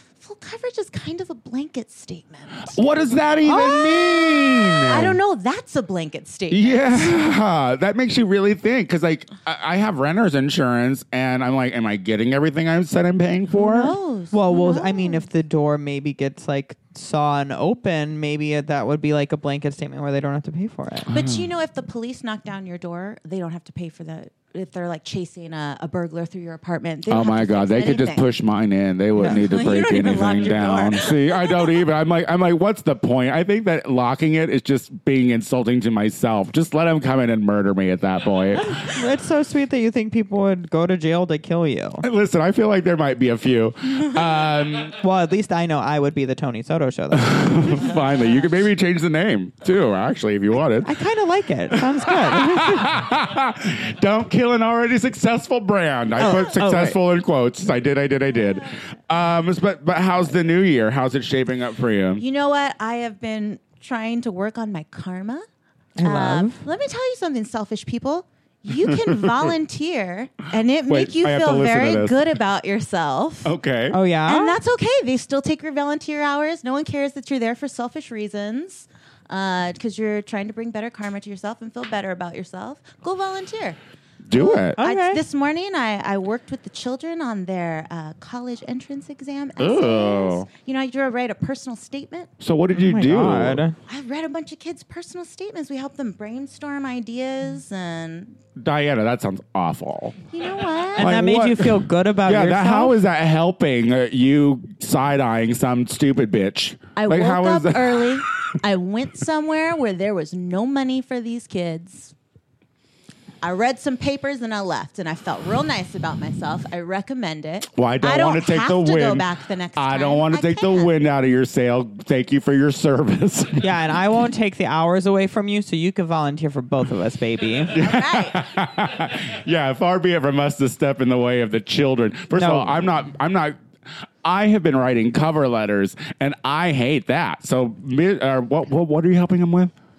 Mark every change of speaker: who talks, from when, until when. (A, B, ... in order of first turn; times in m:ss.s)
0:00.2-0:02.8 A
0:02.7-0:05.2 B
0:03.4-0:07.4 A
0:03.5-0:03.8 C
0:06.5-0:13.9 B
0:13.6-0:15.2 A
0:14.3-0:21.1 C
0:21.1-0:21.4 B
0:21.1-0:28.3 A
0:27.1-0:38.8 B
0:29.2-0:29.4 C
0:29.2-0:31.6 A
0:38.6-0:42.0 C
0:42.0-0:45.0 B
0:44.9-0:47.9 C
0:47.1-0:50.9 B
0:50.8-0:53.0 C
0:52.0-1:02.2 B
0:56.2-0:57.0 C
1:02.2-1:05.4 A
1:06.0-1:06.6 C
1:06.0-1:13.5 A
1:08.9-1:09.4 B
1:10.9-1:12.2 B
1:13.4-1:14.0 B
1:13.9-1:14.6 C
1:14.3-1:23.8 A
1:24.3-1:24.8 B
1:24.4-1:32.3 A
1:24.8-1:25.2 C
1:29.6-1:30.5 B
1:32.4-1:33.6 B
1:32.7-1:33.8 C
1:33.9-1:38.4 A
1:38.6-1:40.2 B
1:40.3-1:41.2 A
1:41.0-1:43.0 C
1:41.0-1:48.2 B
1:47.0-1:52.1 A
1:53.4-2:00.9 A
1:57.8-2:03.7 B
2:03.6-2:07.9 C
2:07.7-2:08.5 A
2:07.7-2:13.6 B
2:12.3-2:12.9 C
2:14.2-2:19.7 B